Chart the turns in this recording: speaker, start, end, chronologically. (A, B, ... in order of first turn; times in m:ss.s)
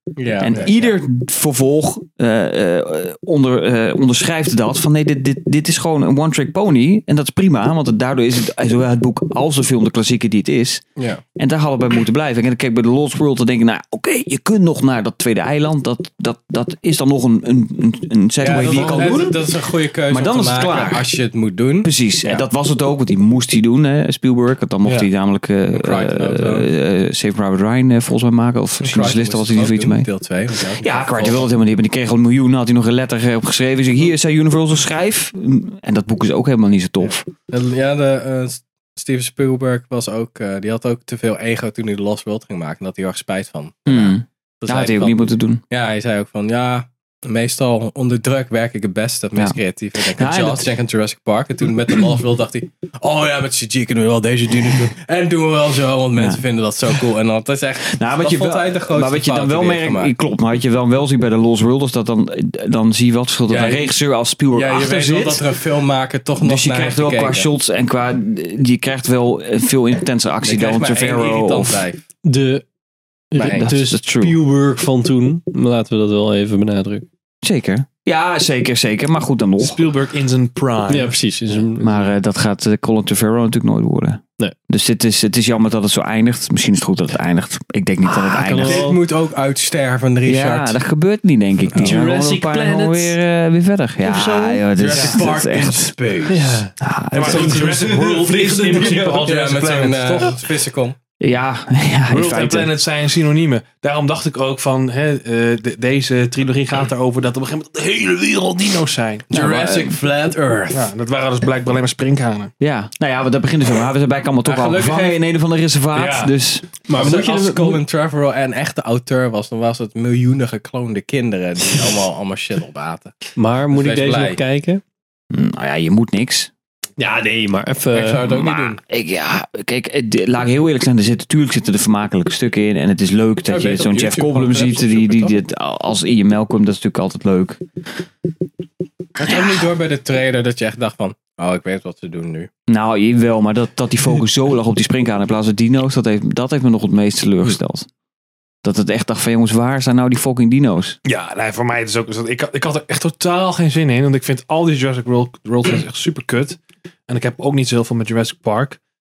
0:00.2-0:01.0 A
0:00.4-0:10.8 B
0:11.4-0:19.6 B
0:18.4-0:21.9 A
0:18.7-0:19.2 C
0:20.1-0:21.1 B
0:21.8-0:30.1 B
0:25.7-0:26.7 A
0:28.8-0:31.5 A
0:30.8-0:37.3 B
0:37.0-1:00.1 A
0:43.9-0:45.6 B
0:49.4-0:50.7 B
0:56.2-0:57.0 B
0:57.9-1:05.5 B
1:03.5-1:03.9 A
1:04.5-1:07.5 A
1:06.4-1:11.8 B
1:10.4-1:12.0 A
1:12.2-1:12.7 D
1:13.3-1:17.0 D
1:13.4-1:13.7 A
1:13.5-1:14.4 B
1:17.4-1:19.8 B
1:19.6-1:21.1 C
1:20.9-1:22.1 D
1:21.8-1:28.9 B
1:28.1-1:29.0 D
1:28.6-1:30.8 A
1:30.2-1:36.0 B
1:31.8-1:33.2 D
1:34.0-1:34.6 D
1:34.8-1:36.3 A
1:34.9-1:35.3 C
1:36.1-1:36.6 C
1:36.3-1:39.3 D
1:36.8-1:37.8 B
1:37.1-1:40.4 C
1:39.2-1:41.0 A
1:41.2-1:42.7 B
1:42.1-1:49.3 C
1:49.3-1:50.9 A
1:49.3-1:50.0 B
1:50.7-1:52.5 C
1:52.6-1:56.7 B
1:54.4-1:55.2 A
1:55.9-1:56.4 C
1:56.9-1:57.8 D
1:56.9-2:03.2 A
2:03.4-2:04.8 D
2:03.7-2:04.4 A
2:05.3-2:06.5 B
2:07.0-2:08.3 D
2:07.9-2:08.8 A
2:08.2-2:17.6 B
2:13.5-2:15.4 A
2:19.2-2:22.5 A
2:19.2-2:19.6 B
2:22.7-2:27.9 B
2:28.6-2:31.0 B
2:31.0-2:38.8 C